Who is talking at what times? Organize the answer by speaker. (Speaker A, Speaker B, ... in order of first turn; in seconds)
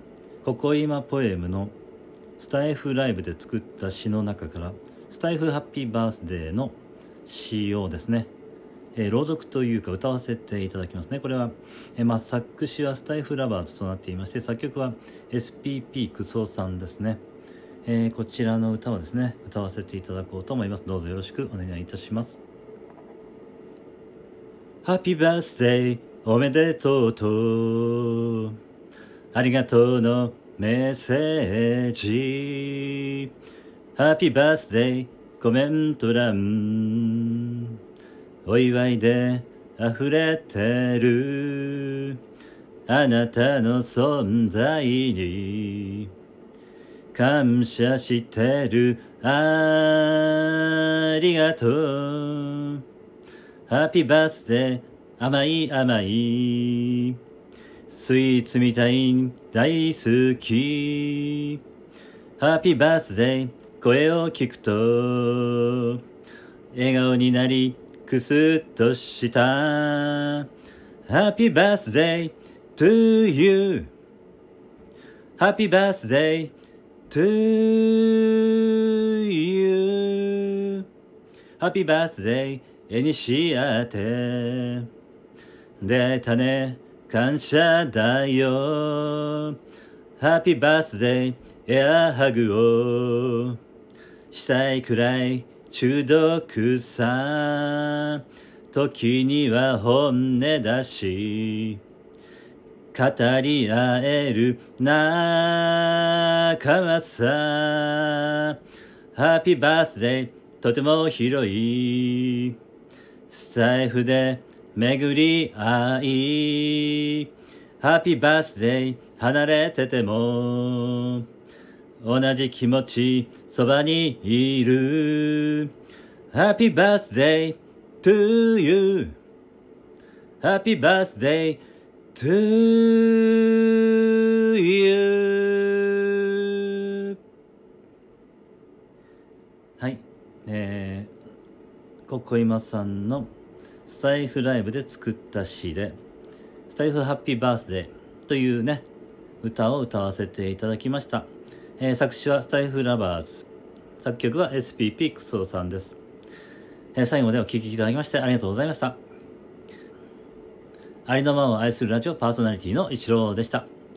Speaker A: 0.4-1.7, 2.4-8.3, 8.9-17.2, 17.9-22.4, 24.8-28.6, 29.3-33.3, 34.0-37.7, 38.5-42.2, 42.9-46.1, 47.1-52.8, 53.7-57.2, 57.9-61.6, 62.4-66.0, 66.7-70.5, 71.1-73.9, 75.4-76.5, 77.1-80.8, 81.6-84.9, 85.8-89.6, 90.2-93.6, 94.3-101.8, 102.9-108.6, 109.2-112.6, 113.3-117.3, 117.8-121.2, 122.0-125.7, 126.3-129.2, 130.4-131.6, 132.2-137.2, 139.8-141.1, 142.1-143.3, 143.9-146.0, 146.7-148.9, 149.4-153.5, 154.0-156.0, 156.9-159.0, 161.1-163.7